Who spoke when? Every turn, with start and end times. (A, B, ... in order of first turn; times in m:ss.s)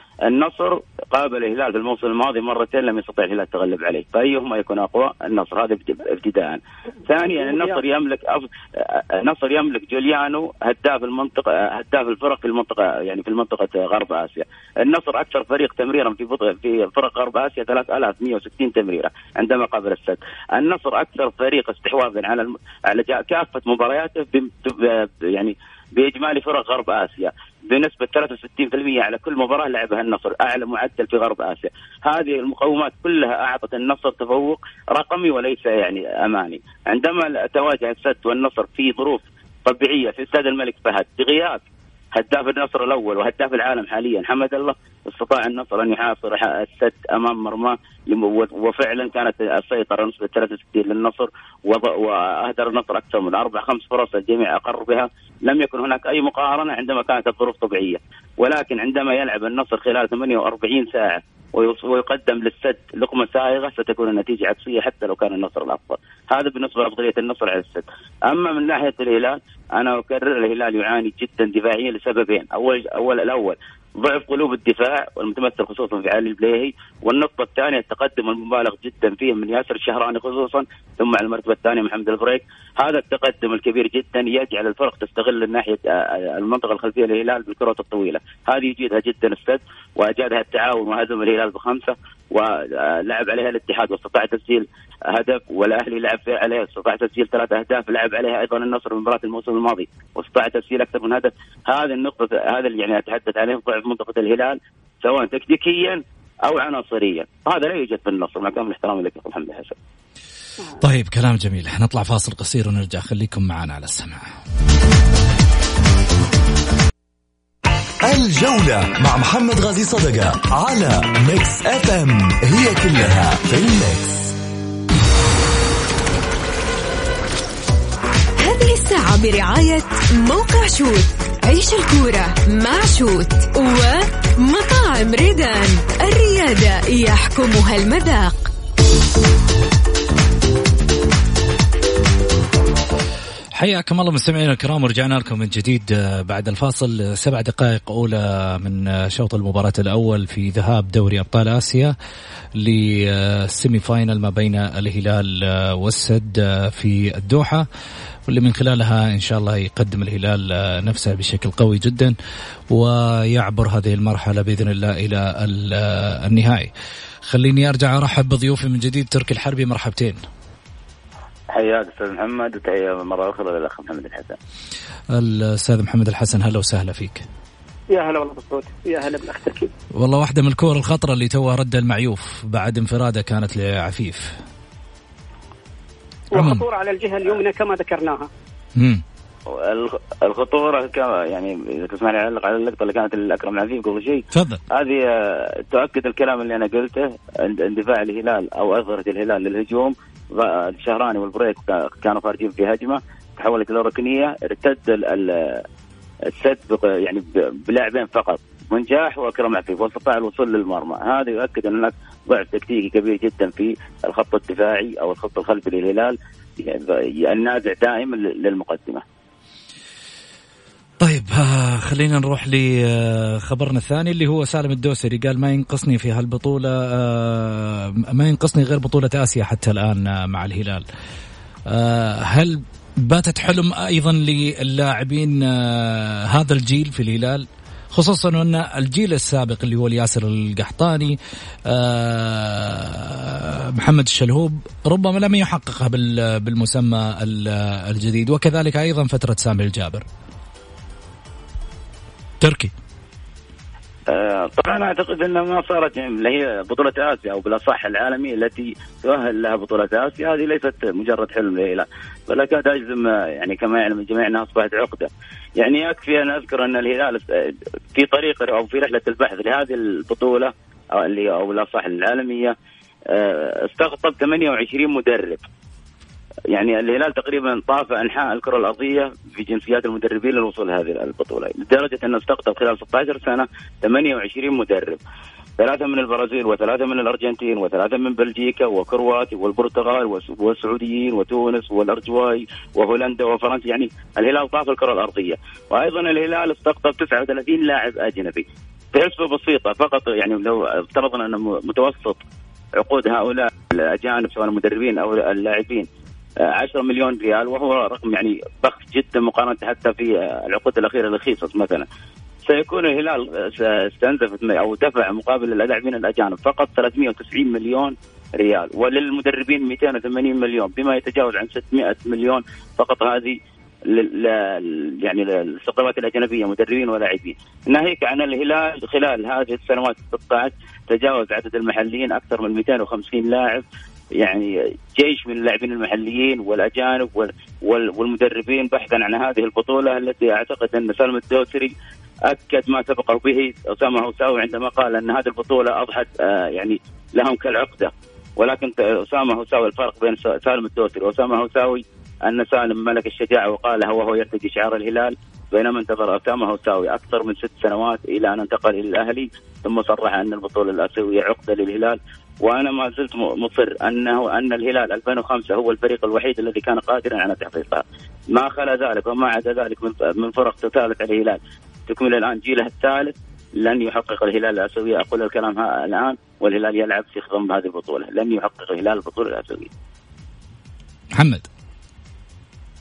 0:00.2-0:41.6 A
0:42.1-1:49.8 A
1:50.8-1:54.3 B
1:58.0-2:04.4 C
2:08.4-2:18.5 D
2:23.6-2:31.9 B
2:32.6-2:37.6 B
2:38.3-2:42.2 B
2:42.7-2:46.7 B
2:47.3-2:50.2 B
2:51.5-2:54.4 A
2:55.1-2:57.2 B
2:57.9-2:59.7 E
3:00.0-3:04.4 B
3:06.3-3:08.3 E
3:06.4-3:06.6 B
3:08.8-3:09.0 B
3:09.5-3:25.6 A
3:14.3-3:14.6 B
3:26.3-3:39.0 A
3:41.0-3:50.8 B
3:51.7-4:01.2 B
4:01.7-4:10.0 B
4:12.4-4:12.7 B
4:14.1-4:32.6 A
4:33.1-4:35.4 A
4:36.5-4:45.0 A
4:45.6-5:02.2 A
5:02.8-5:05.9 A
5:06.4-5:11.9 A
5:12.5-5:33.6 A
5:34.2-5:41.7 A
5:42.3-6:19.7 A
6:21.2-6:21.4 B